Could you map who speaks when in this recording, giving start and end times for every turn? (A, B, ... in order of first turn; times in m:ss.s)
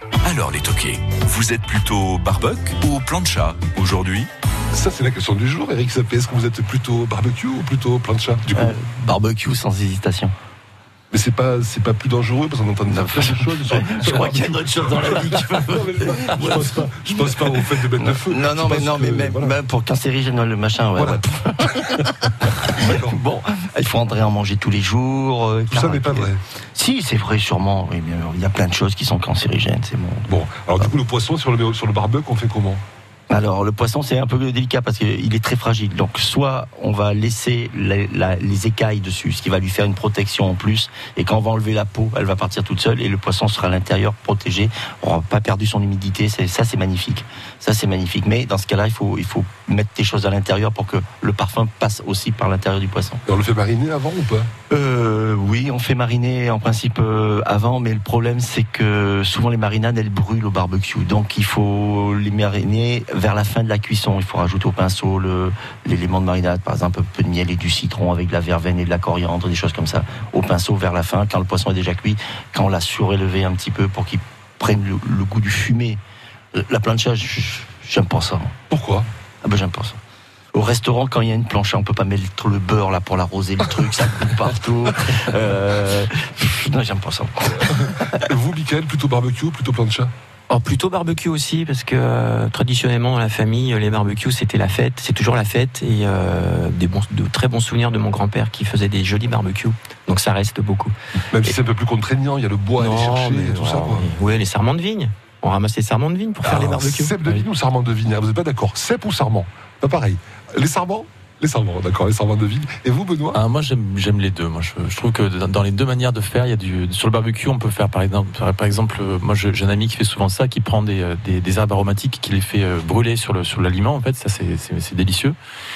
0:00.2-0:04.3 A
0:04.7-0:08.7 B
0:08.5-0:10.3 C
0:11.1-0:19.6 B
0:12.9-0:30.3 C
0:21.0-0:21.2 B
0:22.7-0:23.2 B
0:25.7-0:26.4 B
0:30.3-0:32.8 B
0:33.3-0:53.2 C
0:53.2-0:54.5 B
0:54.7-1:16.0 C
1:16.5-1:18.5 C
1:18.7-1:19.1 B
1:19.4-1:20.0 C
1:20.5-1:28.2 C
1:27.8-1:30.1 B
1:30.5-1:41.6 D
1:41.3-1:44.1 B
1:42.8-1:47.1 D
1:46.4-1:53.4 B
1:53.3-2:05.4 E